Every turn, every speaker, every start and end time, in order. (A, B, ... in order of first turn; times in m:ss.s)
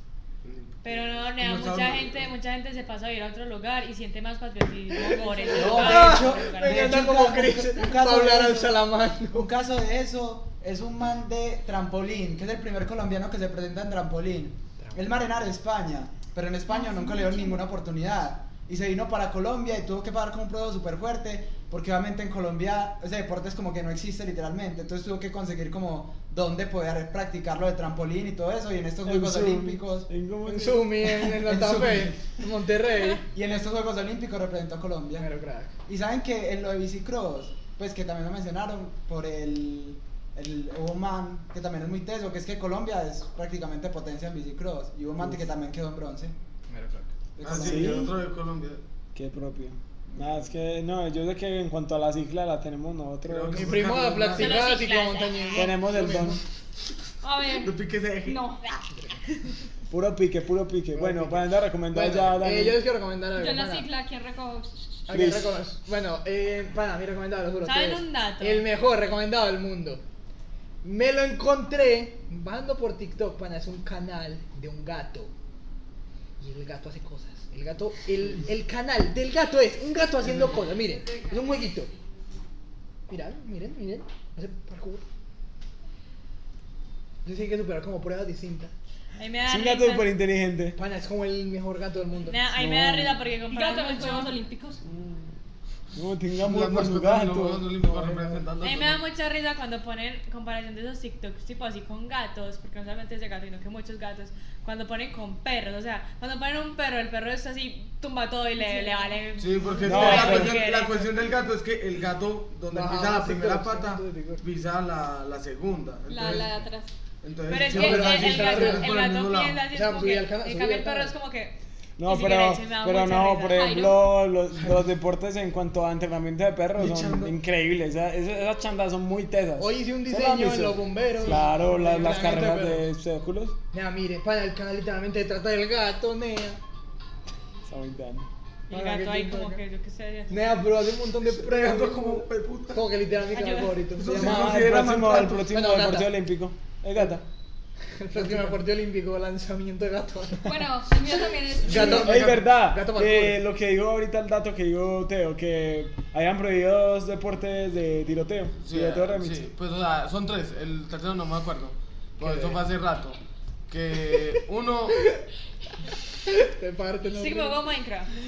0:00.4-0:02.3 A
0:00.8-0:06.9 B
0:04.9-0:09.5 C
0:05.5-0:30.1 D
0:16.7-0:17.6 E
0:29.0-0:31.3 F
0:30.4-0:33.2 C
0:31.2-0:32.4 D
0:33.3-0:35.3 D
0:35.2-0:35.7 C
0:35.8-0:46.3 D
0:46.7-0:47.1 C
0:47.4-0:48.8 A
0:47.4-0:48.1 F
0:49.1-0:53.8 F
0:53.2-0:54.7 A
0:53.5-0:56.4 C
0:54.3-0:55.7 B
0:55.5-0:56.4 F
0:57.2-0:58.8 E
0:57.5-0:58.5 A
0:58.9-0:59.2 C
0:59.9-1:02.8 F
1:00.9-1:03.9 C
1:03.3-1:05.1 E
1:05.1-1:10.0 C
1:05.1-1:05.5 F
1:07.6-1:08.6 B
1:10.8-1:15.3 C
1:16.4-1:21.9 C
1:23.1-1:25.0 C
1:27.2-1:28.7 C
1:29.2-1:30.1 B
1:29.4-1:30.8 F
1:30.7-1:32.4 C
1:32.3-1:34.4 B
1:32.5-1:33.2 F
1:33.5-1:34.8 E
1:34.9-1:35.2 F
1:35.9-1:37.7 F
1:36.4-1:39.0 A
1:37.8-1:38.4 C
1:38.6-1:51.1 B
1:48.6-1:49.2 E
1:49.4-1:56.7 A
1:49.8-1:50.6 F
1:52.7-1:54.4 C
1:56.1-1:56.9 E
1:57.2-1:59.6 A
1:57.5-2:03.9 B
1:57.7-1:58.9 C
1:59.7-2:01.1 C
2:02.0-2:13.6 F
2:03.5-2:04.0 E
2:06.7-2:07.3 A
2:09.6-2:12.9 C
2:13.7-2:16.6 C
2:17.6-2:18.3 F
2:18.7-2:20.6 B
2:18.7-2:19.6 C
2:20.3-2:24.7 C
2:21.2-2:22.9 A
2:23.3-2:23.8 B
2:24.0-2:25.4 A
2:24.1-2:27.2 F
2:25.2-2:26.1 C
2:28.0-2:31.0 C
2:30.4-2:32.1 E
2:31.6-2:33.4 C
2:31.6-2:32.5 A
2:32.0-2:39.4 F
2:38.6-2:43.2 A
2:42.2-2:42.6 C
2:43.7-2:45.0 A
2:46.2-2:47.6 C
2:47.1-2:48.1 B